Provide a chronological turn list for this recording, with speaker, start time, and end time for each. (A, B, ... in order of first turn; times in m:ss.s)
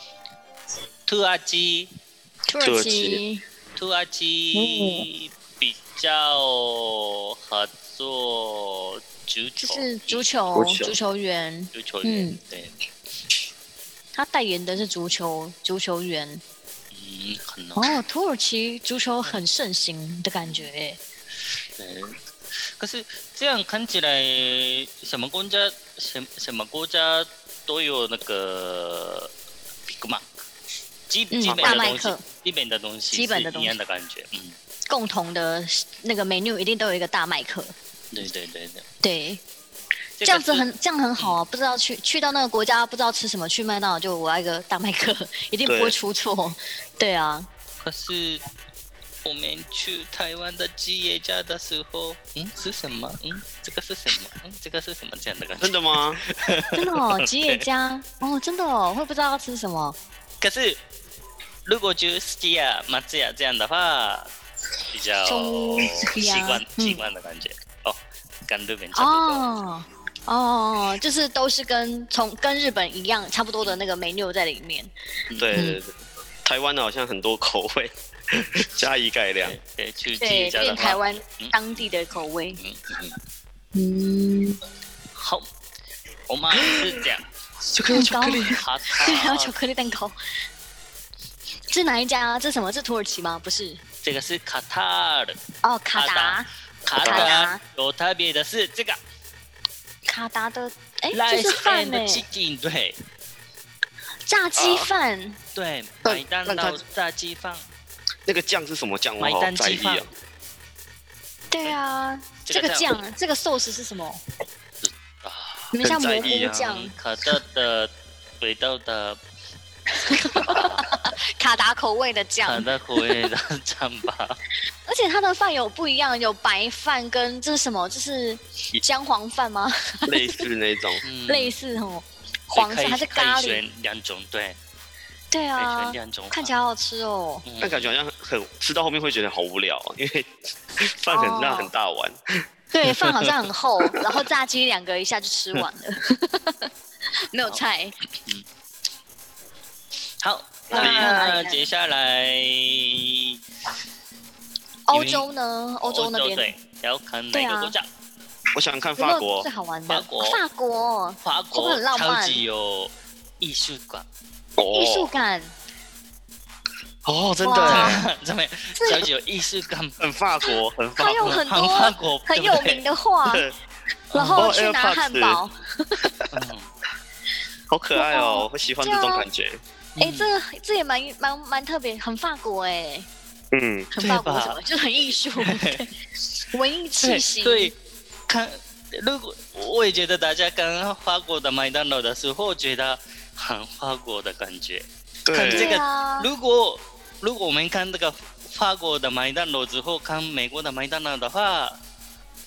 0:01.1-0:01.9 A
0:02.5-0:03.4 B
0:02.6-0:03.2 C
0:03.8-0:10.3 A
0:04.5-0:05.1 B
0:09.6-0:12.4 B
0:10.5-0:11.0 C
0:11.7-0:12.7 A
0:14.1-0:16.4 B
0:16.9-0:18.0 A
0:17.8-0:21.0 B
0:20.4-0:20.7 A
0:21.8-0:29.3 A
0:29.9-0:30.4 A
0:31.1-0:34.6 A
0:31.3-0:32.2 B
0:31.5-0:32.0 C
0:33.1-0:33.7 B
0:34.9-0:37.7 B
0:38.1-0:38.8 A
0:39.0-0:39.4 B
0:40.2-0:40.6 A
0:40.2-0:47.5 B
0:45.6-0:46.0 C
0:47.8-0:48.4 A
0:49.2-0:57.6 A
0:55.6-0:56.2 C
0:56.8-1:00.0 B
1:00.4-1:00.8 A
1:01.6-1:04.3 A
1:04.9-1:09.5 A
1:05.3-1:07.0 B
1:08.9-1:14.9 B
1:15.3-1:15.6 A
1:15.4-1:15.9 C
1:15.5-1:15.8 B
1:16.4-1:19.6 C
1:19.4-1:23.2 A
1:20.2-1:22.6 B
1:23.7-1:24.6 B
1:25.1-1:25.5 A
1:26.3-1:27.3 A
1:26.5-1:27.0 C
1:27.7-1:28.6 C
1:27.9-1:30.2 B
1:28.5-1:29.5 A
1:31.7-1:33.8 B
1:34.0-1:35.4 A
1:35.6-1:36.5 B
1:35.9-1:39.0 A
1:36.9-1:37.4 C
1:37.0-1:37.6 B
1:40.1-1:42.2 B
1:41.1-1:43.0 A
1:44.3-1:45.4 B
1:44.6-1:44.9 C
1:45.6-1:47.6 A
1:46.0-1:46.8 C
1:48.3-1:50.1 C
1:49.2-1:50.1 A
1:51.5-1:54.2 B
1:52.5-1:53.0 A
1:54.8-1:59.2 A
1:55.7-1:56.9 B
1:55.8-1:56.4 C
1:59.9-2:02.7 B
2:00.4-2:00.9 A
2:02.4-2:04.4 A
2:04.9-2:10.4 B
2:10.1-2:11.0 C
2:11.0-2:11.5 A
2:11.3-2:13.6 B
2:12.5-2:14.6 A
2:15.3-2:17.4 B
2:15.6-2:16.5 A
2:17.4-2:18.0 A
2:17.6-2:22.4 C
2:21.1-2:21.7 B
2:22.7-2:26.7 B
2:27.3-2:28.0 B
2:30.2-2:33.4 A
2:30.7-2:31.3 C
2:30.7-2:31.6 B
2:34.9-2:36.5 B
2:34.9-2:35.3 A
2:35.8-2:37.9 A
2:37.3-2:37.7 B
2:38.6-2:39.5 C
2:39.0-2:42.4 B
2:39.9-2:40.4 A
2:41.2-2:44.1 A
2:44.6-2:45.1 C
2:44.7-2:45.5 B
2:47.0-2:48.0 C
2:47.4-2:48.0 B
2:47.6-2:50.0 A
2:48.8-2:49.1 B
2:50.0-2:51.3 C
2:50.4-2:53.4 B
2:51.2-2:52.8 A
2:53.3-2:53.5 C
2:54.1-2:54.5 A
2:54.1-2:56.1 B
2:54.3-2:55.4 C
2:56.3-2:56.7 A
2:57.7-2:59.6 C
2:58.0-2:59.2 B
3:00.0-3:00.3 A
3:00.0-3:03.1 B
3:03.5-3:03.9 C
3:03.9-3:05.9 B
3:04.0-3:04.6 A
3:05.4-3:05.8 A
3:06.5-3:07.7 B
3:07.0-3:07.8 A
3:08.3-3:21.8 A
3:15.3-3:15.8 C
3:15.4-3:16.3 B